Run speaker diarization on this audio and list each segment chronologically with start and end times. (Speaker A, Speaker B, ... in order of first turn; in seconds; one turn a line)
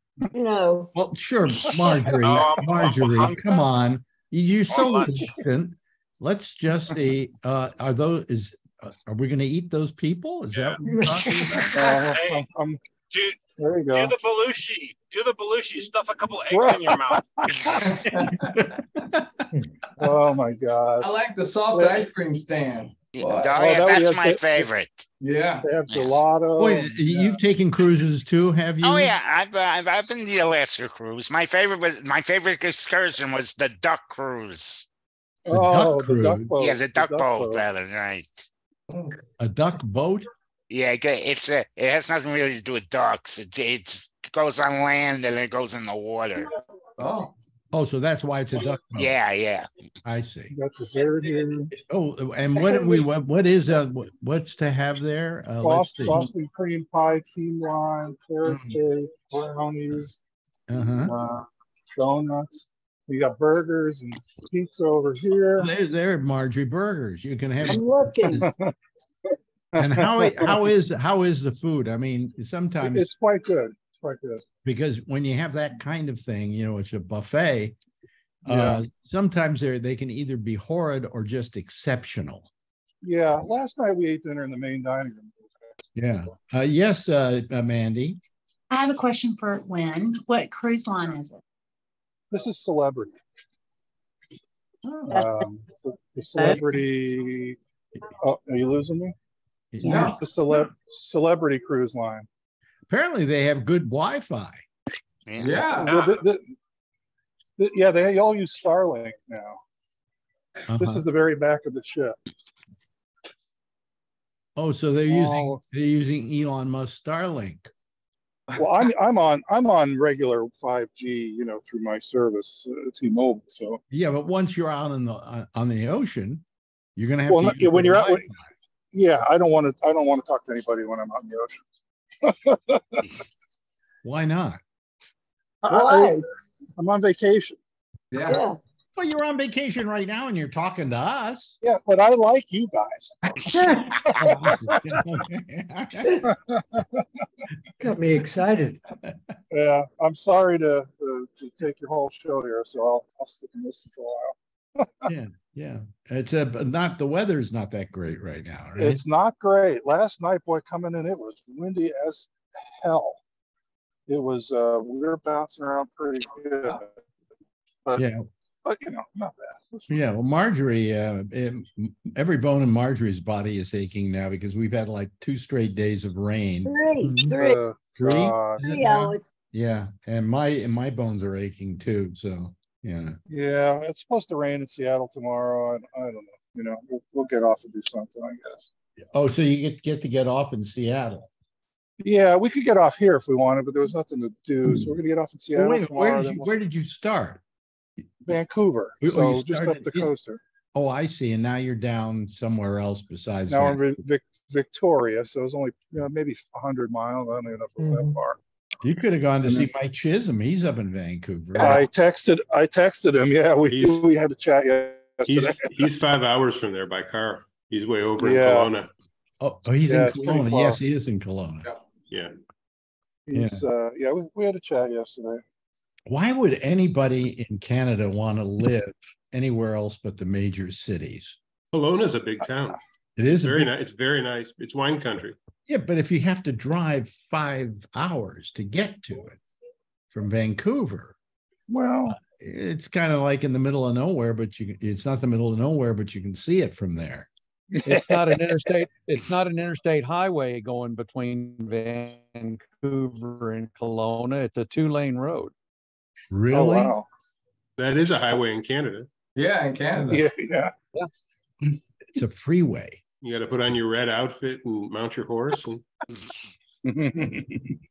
Speaker A: 0.3-0.9
Speaker B: 0.9-11.9
Speaker C: 2.2-3.6
Speaker C: 4.7-5.2
Speaker C: 10.5-10.8
Speaker D: 10.8-11.9
Speaker E: 11.7-12.8
Speaker C: 11.8-12.4
Speaker C: 13.1-17.3
Speaker E: 13.6-14.2
Speaker E: 16.5-18.0
Speaker F: 17.8-18.6
Speaker B: 18.2-19.4
Speaker D: 19.5-20.1
Speaker E: 20.0-21.1
Speaker F: 21.0-23.6
Speaker E: 21.7-22.1
Speaker G: 23.1-25.0
Speaker E: 23.5-24.7
Speaker F: 25.2-25.7
Speaker E: 25.6-27.4
Speaker B: 26.6-29.1
Speaker G: 28.8-34.9
Speaker E: 35.5-37.6
Speaker B: 35.5-36.5
Speaker G: 36.6-38.5
Speaker F: 38.9-39.1
Speaker B: 39.4-40.3
Speaker G: 40.7-46.5
Speaker F: 47.0-47.3
Speaker B: 47.7-49.1
Speaker G: 49.0-49.7
Speaker B: 50.0-50.5
Speaker E: 50.5-51.7
Speaker B: 51.7-56.3
Speaker E: 52.6-53.0
Speaker E: 55.6-60.2
Speaker B: 58.5-58.8
Speaker B: 60.7-61.1
Speaker E: 61.0-65.7
Speaker B: 65.6-68.4
Speaker A: 67.7-68.5
Speaker E: 68.4-68.7
Speaker E: 69.8-70.7
Speaker B: 69.8-73.1
Speaker E: 72.8-74.4
Speaker B: 74.6-77.8
Speaker B: 78.5-82.5
Speaker E: 78.5-78.8
Speaker E: 83.0-85.4
Speaker B: 86.0-88.2
Speaker H: 88.7-91.4
Speaker E: 92.3-93.2
Speaker B: 94.9-95.2
Speaker E: 95.0-97.6
Speaker H: 95.1-95.4
Speaker H: 96.4-96.7
Speaker E: 98.2-99.1
Speaker B: 99.7-100.2
Speaker H: 99.8-100.2
Speaker F: 99.8-100.2
Speaker E: 99.9-102.3
Speaker B: 102.9-104.6
Speaker G: 105.3-105.7
Speaker F: 105.4-105.9
Speaker E: 105.8-106.5
Speaker C: 105.9-106.2
Speaker E: 107.6-109.6
Speaker B: 110.7-111.0
Speaker E: 110.7-112.2
Speaker B: 114.5-117.7
Speaker E: 115.1-115.6
Speaker F: 118.5-118.9
Speaker E: 118.5-123.8
Speaker B: 123.9-126.4
Speaker B: 127.0-128.5
Speaker E: 127.3-128.3
Speaker E: 128.9-131.6
Speaker E: 132.2-133.2
Speaker B: 134.0-134.6
Speaker E: 135.6-136.2
Speaker A: 135.7-136.2
Speaker E: 136.8-137.6
Speaker F: 138.1-138.4
Speaker A: 138.2-138.6
Speaker B: 138.9-141.6
Speaker E: 141.6-145.0
Speaker D: 143.5-144.5
Speaker B: 144.1-146.3
Speaker E: 146.2-147.0
Speaker D: 147.8-148.8
Speaker E: 149.5-155.0
Speaker B: 155.0-159.0
Speaker E: 158.8-163.2
Speaker E: 164.1-166.9
Speaker B: 167.9-168.2
Speaker E: 168.6-169.9
Speaker B: 169.9-177.3
Speaker A: 176.7-177.6
Speaker E: 177.3-178.9
Speaker B: 177.9-183.2
Speaker A: 178.6-179.3
Speaker E: 183.3-188.7
Speaker B: 189.0-191.3
Speaker E: 192.0-196.6
Speaker B: 194.6-194.9
Speaker B: 195.5-197.4
Speaker E: 198.2-200.4
Speaker B: 199.0-200.1
Speaker B: 200.7-204.0
Speaker E: 203.5-208.4
Speaker D: 207.8-208.2
Speaker B: 208.8-211.9
Speaker E: 211.6-215.7
Speaker I: 213.7-214.1
Speaker I: 215.3-218.9
Speaker E: 218.2-218.7
Speaker B: 219.4-221.7
Speaker E: 219.8-220.8
Speaker E: 223.3-225.4
Speaker B: 223.3-223.6
Speaker B: 226.1-231.4
Speaker I: 231.7-235.4
Speaker B: 233.2-233.7
Speaker B: 235.7-239.4
Speaker B: 240.1-241.2
Speaker E: 241.7-242.2
Speaker B: 242.1-247.3
Speaker J: 247.9-255.5
Speaker B: 256.3-256.9
Speaker E: 256.5-257.1
Speaker I: 257.8-259.1
Speaker F: 259.4-260.3
Speaker E: 260.1-260.7
Speaker B: 262.1-263.0
Speaker I: 263.2-265.8
Speaker E: 266.8-267.7